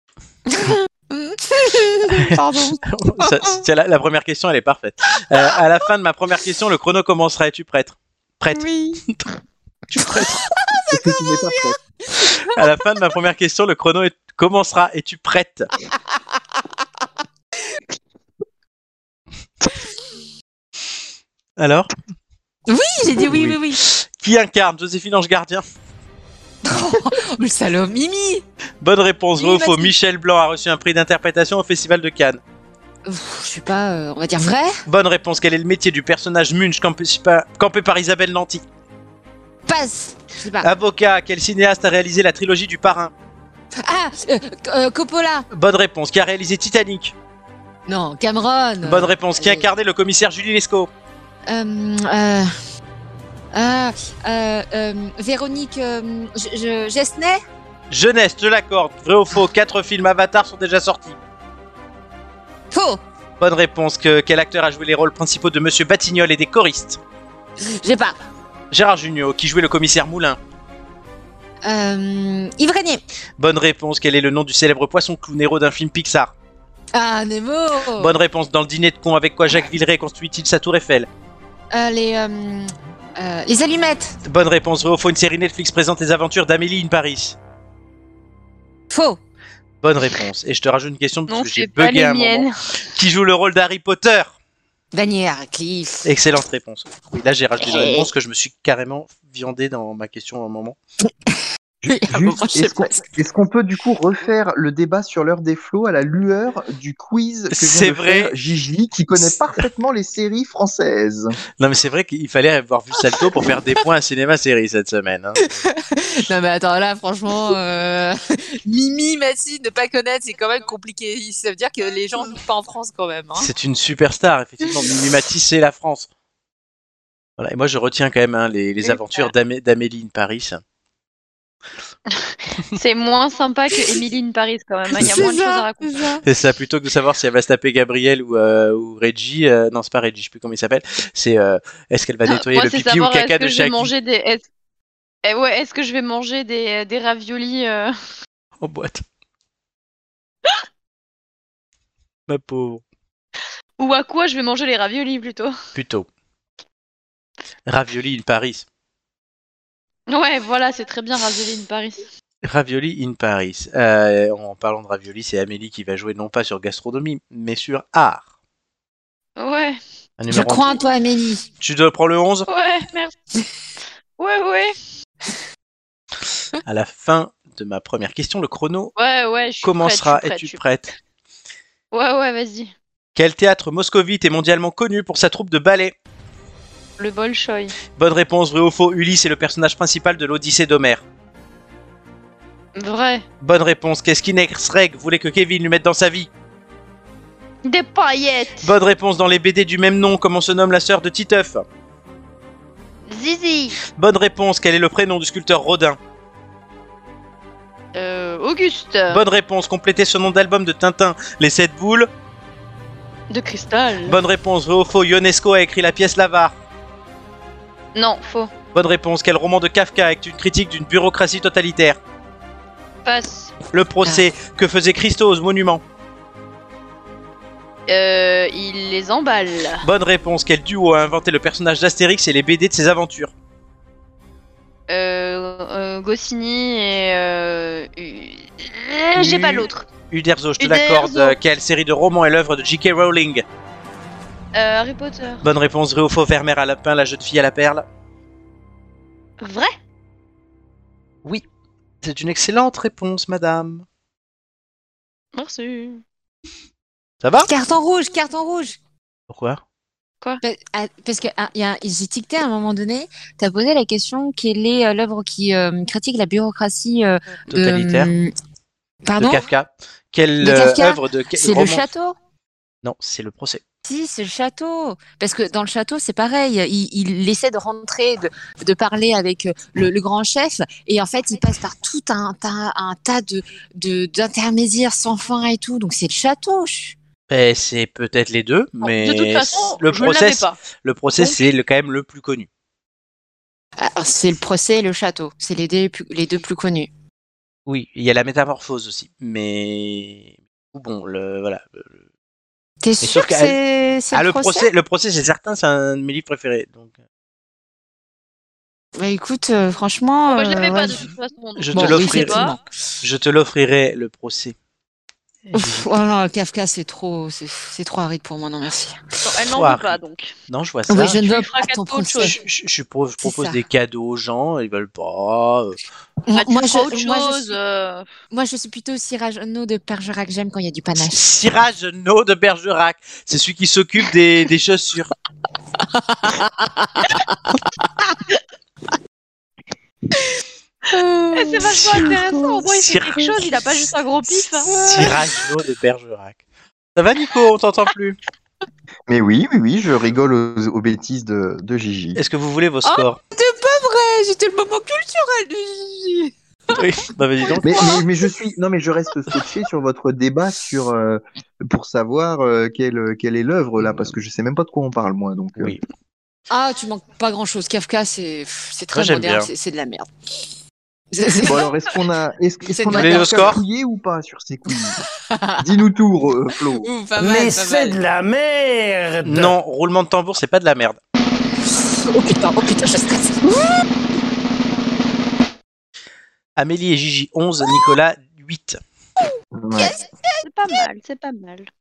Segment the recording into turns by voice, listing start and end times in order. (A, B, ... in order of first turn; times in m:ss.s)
0:00.5-0:03.6 A
0:02.1-0:09.3 B
0:08.5-0:09.0 A
0:09.9-0:10.4 B
0:10.0-0:12.6 A
0:10.9-0:11.8 C
0:12.5-0:15.7 B
0:21.6-0:21.9 B
0:22.7-0:23.8 A
0:23.2-0:25.6 B
0:26.6-0:28.4 A
0:28.8-0:32.4 B
0:29.4-0:29.9 A
0:33.1-0:34.8 A
0:34.9-0:38.6 B
0:39.7-0:40.7 A
0:40.6-0:43.1 B
0:43.8-0:45.5 A
0:45.5-0:47.1 B
0:47.9-0:49.7 A
0:48.8-0:50.9 B
0:51.5-0:52.5 A
0:53.5-0:57.4 A
0:57.9-1:01.2 B
1:02.7-1:03.0 A
1:03.4-1:07.0 B
1:07.6-1:08.2 A
1:08.7-1:10.4 B
1:11.6-1:13.0 A
1:13.4-1:16.3 B
1:16.9-1:18.2 A
1:18.0-1:21.1 B
1:21.7-1:24.2 A
1:24.2-1:27.4 B
1:28.9-1:29.2 A
1:29.8-1:34.3 B
1:31.3-1:32.5 D
1:34.9-1:36.1 A
1:36.0-1:40.8 B
1:37.6-1:38.1 A
1:41.8-1:51.4 C
1:41.9-1:43.0 A
1:47.5-1:48.3 B
1:51.6-1:55.6 B
1:55.4-2:03.5 A
2:03.4-2:06.1 B
2:07.4-2:10.6 B
2:12.1-2:16.1 D
2:14.9-2:16.2 A
2:15.0-2:15.3 B
2:16.2-2:23.9 B
2:22.3-2:24.4 D
2:25.2-2:27.9 D
2:28.6-2:29.0 B
2:32.3-2:32.8 B
2:33.8-2:35.5 D
2:35.7-2:36.1 B
2:37.7-2:38.7 B
2:40.1-2:42.1 D
2:42.4-2:48.2 B
2:49.4-2:49.8 D
2:50.2-2:50.8 B
2:50.3-2:51.5 A
2:51.6-2:52.5 B
2:52.5-2:53.2 D
2:54.2-2:54.8 D
2:56.6-2:58.9 B
2:59.0-3:00.6 D
2:59.6-3:01.0 B
3:01.9-3:02.7 D
3:03.2-3:06.0 B
3:07.0-3:07.8 D
3:08.0-3:11.0 B
3:12.8-3:13.2 D
3:13.4-3:16.3 B
3:17.6-3:18.8 D
3:18.6-3:21.6 B
3:23.1-3:23.8 D
3:24.0-3:26.0 B
3:27.9-3:29.2 D
3:29.1-3:32.1 B
3:33.3-3:34.2 D
3:34.1-3:36.6 B
3:38.0-3:38.5 D
3:38.7-3:42.0 B
3:43.0-3:43.5 D
3:43.7-3:45.8 B
3:47.9-3:49.8 D
3:49.8-3:53.3 B
3:54.9-3:59.9 D
3:59.2-4:03.4 B
4:00.6-4:01.4 D
4:04.6-4:05.4 D
4:05.4-4:07.9 B
4:09.4-4:09.7 D
4:12.0-4:13.8 B
4:15.4-4:16.0 D
4:17.2-4:17.5 B
4:17.4-4:18.8 A
4:19.3-4:19.6 B
4:20.4-4:28.3 A
4:27.5-4:28.1 B
4:29.0-4:29.5 A
4:29.2-4:31.9 B
4:30.4-4:32.2 A
4:32.8-4:33.6 B
4:33.8-4:47.0 A
4:47.3-4:52.5 B
4:48.8-4:50.6 D
4:51.2-4:51.5 D
4:53.8-4:56.9 A
4:57.7-5:01.9 B
5:02.8-5:04.7 A
5:03.0-5:03.6 B
5:04.1-5:06.9 B
5:09.0-5:11.1 A
5:10.3-5:12.6 D
5:11.6-5:12.4 B
5:11.7-5:12.6 A
5:13.0-5:14.6 B
5:15.4-5:15.9 B
5:15.5-5:19.0 A
5:19.2-5:20.3 D
5:19.5-5:21.4 B
5:20.9-5:22.4 A
5:21.3-5:22.4 D
5:22.2-5:25.8 B
5:23.2-5:23.6 A
5:26.2-5:27.6 A
5:26.3-5:28.1 D
5:28.3-5:31.2 A
5:31.0-5:35.1 B
5:35.9-5:37.4 A
5:40.9-5:41.6 A
5:41.3-5:44.8 D
5:41.7-5:43.9 B
5:44.6-5:45.4 A
5:44.7-5:46.4 B
5:47.0-5:48.2 B
5:49.1-5:52.2 C
5:52.2-5:53.2 B
5:52.8-5:56.8 A
5:56.7-5:58.0 B
5:57.6-6:05.8 C
6:06.5-6:10.1 A
6:08.9-6:09.5 B
6:11.1-6:11.7 A
6:11.4-6:15.0 C
6:12.7-6:13.5 A
6:12.9-6:13.6 B
6:15.3-6:15.7 A
6:15.6-6:16.9 C
6:16.8-6:18.0 A
6:17.2-6:19.6 E
6:19.2-6:21.0 B
6:22.1-6:23.8 A
6:26.6-6:28.8 B
6:29.5-6:30.0 C
6:29.8-6:30.4 A
6:30.4-6:31.7 D